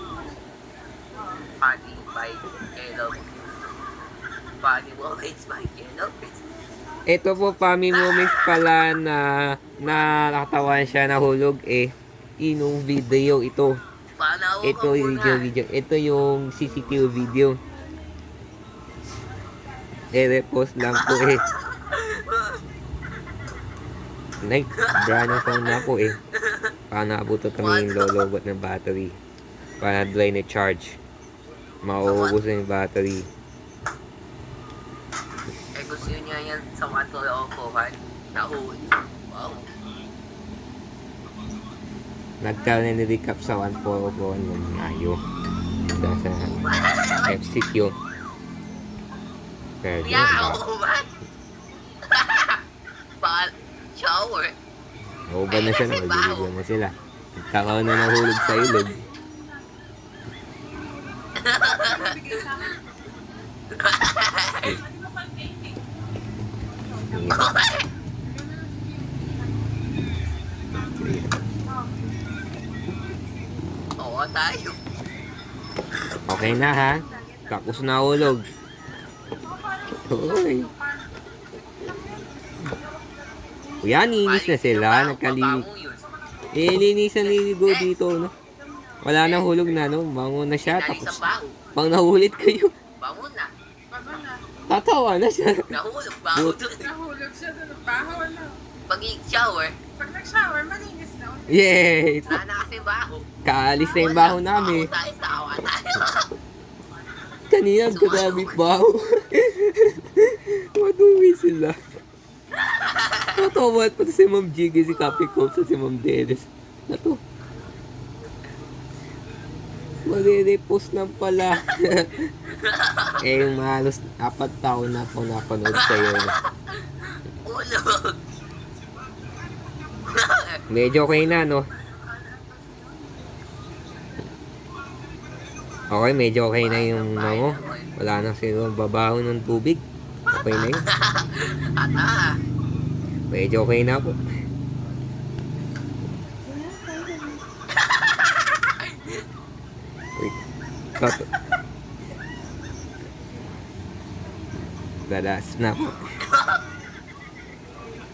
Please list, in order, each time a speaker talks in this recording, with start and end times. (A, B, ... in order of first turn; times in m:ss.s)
0:01.6-0:03.4 A
0:04.6-0:06.4 A
0:07.1-0:13.8 B
0:07.9-0:08.5 A
0:14.2-0:15.5 A
0:14.6-0:17.6 B
0:20.1-0:21.4 B
0:20.9-0:22.6 A
0:24.4-0:26.2 B
0:24.8-0:26.7 A
0:26.9-0:29.2 B
0:27.6-0:28.1 A
0:29.8-0:31.0 B
0:31.8-0:33.3 B
0:32.0-0:32.4 A
0:35.8-0:39.7 A
0:42.4-0:45.2 B
0:45.9-0:46.6 B
0:46.4-0:47.4 A
0:47.3-0:48.0 B
0:49.8-0:50.6 B
0:50.0-0:51.1 A
0:52.1-0:52.6 A
0:53.2-0:54.5 A
0:55.3-0:59.0 B
0:55.5-0:56.5 A
0:58.0-0:58.9 A
1:01.4-1:02.6 A
1:02.3-1:02.8 C
1:03.7-1:04.8 A
1:05.1-1:05.7 C
1:07.1-1:07.5 B
1:07.3-1:07.9 A
1:08.3-1:09.2 C
1:10.8-1:11.3 B
1:14.0-1:14.8 A
1:16.3-1:18.5 B
1:19.7-1:21.1 C
1:20.1-1:20.7 B
1:23.8-1:25.7 B
1:24.2-1:26.1 A
1:26.5-1:28.3 B
1:27.2-1:27.9 A
1:29.0-1:31.2 B
1:29.2-1:29.7 A
1:30.6-1:31.6 A
1:31.8-1:32.7 B
1:33.0-1:33.5 A
1:33.9-1:34.5 C
1:34.7-1:35.7 B
1:35.7-1:36.9 A
1:36.9-1:38.6 C
1:38.9-1:39.8 A
1:40.0-1:41.5 C
1:41.5-1:42.4 B
1:42.3-1:43.3 A
1:43.4-1:44.9 B
1:44.0-1:46.3 A
1:47.5-1:51.8 B
1:47.9-1:48.6 A
1:52.6-1:53.3 A
1:53.3-1:57.2 B
2:00.0-2:02.3 B
2:02.4-2:03.3 A
2:03.2-2:06.4 B
2:05.7-2:08.2 A
2:10.0-2:10.6 A
2:10.7-2:11.7 B
2:15.9-2:20.9 B
2:16.6-2:17.9 A
2:20.7-2:22.4 A
2:23.3-2:24.2 B
2:26.9-2:27.3 C
2:28.0-2:29.2 A
2:31.0-2:31.3 B
2:35.1-2:36.2 B
2:36.3-2:36.6 A